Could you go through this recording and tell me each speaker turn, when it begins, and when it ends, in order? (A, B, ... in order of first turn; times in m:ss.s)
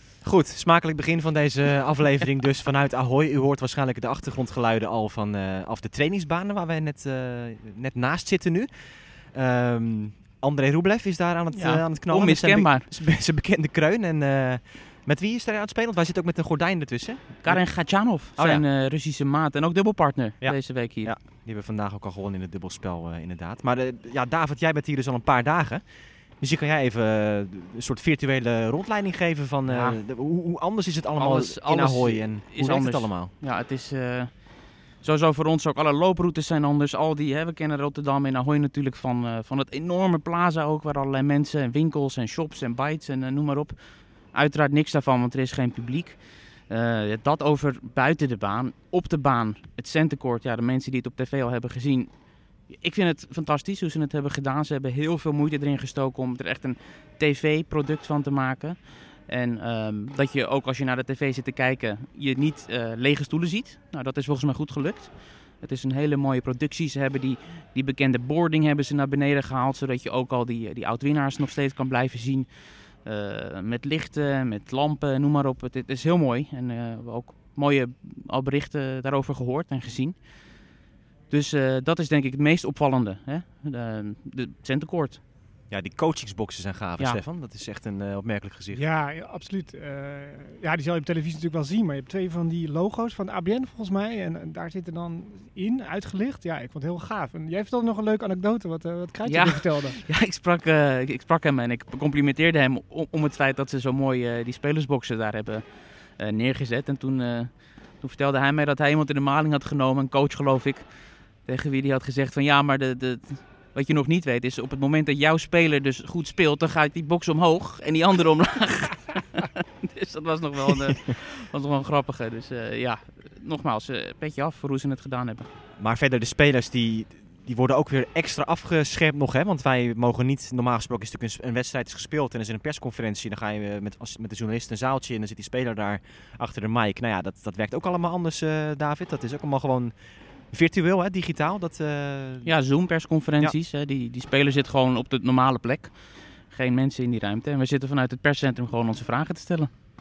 0:00.2-0:18.6 A
0:11.5-0:12.9 B
0:17.4-0:21.1 B
0:20.4-0:33.3 A
0:29.7-0:30.0 B
0:31.2-1:20.7 B
1:21.3-1:25.2 B
1:25.7-1:28.8 A
1:28.7-1:40.0 C
1:39.2-2:05.5 B
2:05.8-2:22.5 A
2:22.4-2:29.7 B